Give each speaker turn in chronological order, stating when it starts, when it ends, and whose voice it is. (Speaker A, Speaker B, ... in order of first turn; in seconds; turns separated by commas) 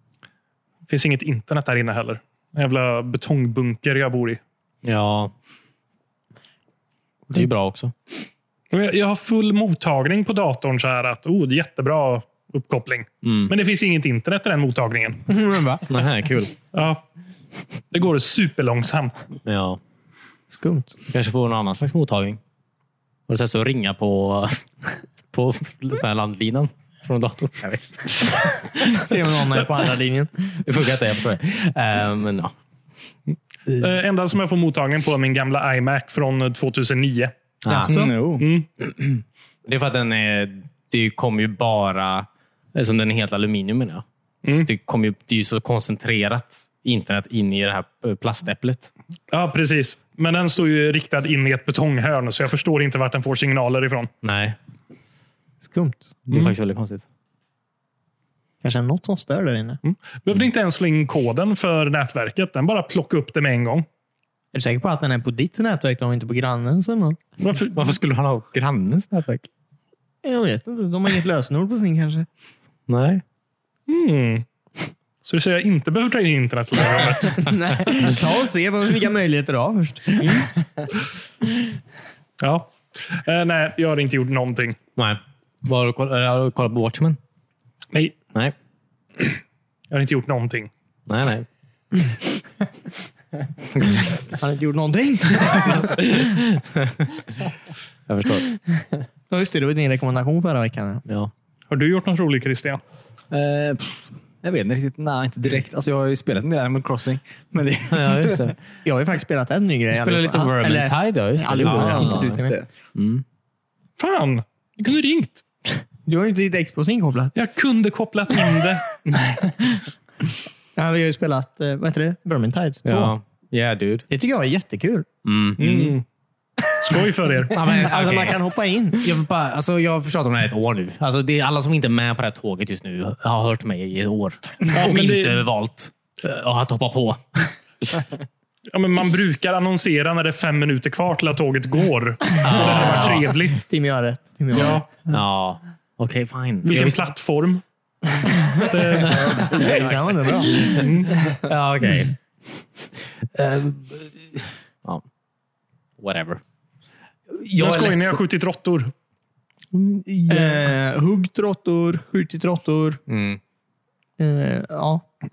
Speaker A: 0.9-4.4, Speaker B: 4.8-5.3, Speaker B: 7.3-7.9, Speaker A: 8.7-15.2, Speaker B: 13.2-13.5, Speaker C: 15.3-15.9, Speaker B: 15.9-16.5, Speaker A: 16.7-17.0, Speaker A: 17.9-19.3, Speaker B: 19.4-19.8, Speaker C: 20.5-20.9, Speaker B: 21.1-22.4, Speaker B: 23.3-29.6, Speaker C: 28.9-30.6, Speaker B: 30.6-32.5, Speaker A: 33.8-37.3, Speaker B: 37.6-37.9, Speaker C: 37.7-38.1, Speaker D: 37.9-38.5, Speaker A: 38.4-38.7, Speaker B: 38.8-48.9, Speaker A: 49.3-54.1, Speaker B: 54.2-54.5, Speaker C: 55.6-56.2, Speaker B: 56.3-57.0, Speaker C: 58.6-59.8, Speaker A: 59.8-63.9, Speaker C: 64.5-67.2, Speaker A: 67.4-67.9, Speaker B: 67.7-69.5, Speaker C: 70.2-72.2, Speaker B: 72.9-73.2, Speaker A: 73.9-74.4, Speaker A: 75.2-77.6, Speaker C: 77.4-80.5, Speaker A: 82.4-84.8, Speaker B: 85.0-87.2, Speaker A: 89.9-90.7, Speaker B: 91.1-91.5, Speaker B: 93.7-94.2, Speaker C: 94.4-96.2, Speaker B: 95.4-97.4, Speaker B: 98.1-98.5, Speaker C: 99.3-101.0, Speaker B: 101.1-101.3, Speaker A: 101.7-102.8, Speaker D: 103.3-108.5, Speaker B: 107.9-108.6, Speaker C: 108.8-112.5, Speaker B: 109.9-112.3, Speaker D: 111.6-112.7, Speaker B: 112.9-113.2, Speaker A: 114.0-115.4, Speaker C: 116.0-117.3, Speaker A: 117.3-118.9, Speaker C: 120.7-123.1, Speaker B: 122.8-124.1, Speaker C: 124.1-125.0, Speaker B: 125.2-126.0, Speaker A: 125.6-126.0, Speaker A: 126.8-127.7, Speaker B: 127.5-128.4, Speaker C: 127.5-129.2, Speaker B: 128.9-137.5, Speaker A: 134.7-135.4, Speaker A: 138.7-143.6, Speaker B: 142.4-143.3, Speaker C: 142.5-144.9, Speaker A: 144.5-144.9, Speaker B: 145.1-147.0, Speaker A: 146.6-147.6, Speaker A: 148.5-150.0, Speaker B: 149.0-152.2, Speaker C: 149.1-150.9, Speaker A: 150.6-151.3, Speaker B: 153.2-155.0, Speaker B: 156.0-156.4, Speaker B: 157.3-158.2, Speaker A: 157.6-158.9, Speaker B: 159.7-160.7, Speaker C: 160.3-163.0, Speaker B: 163.1-163.4, Speaker C: 164.2-165.1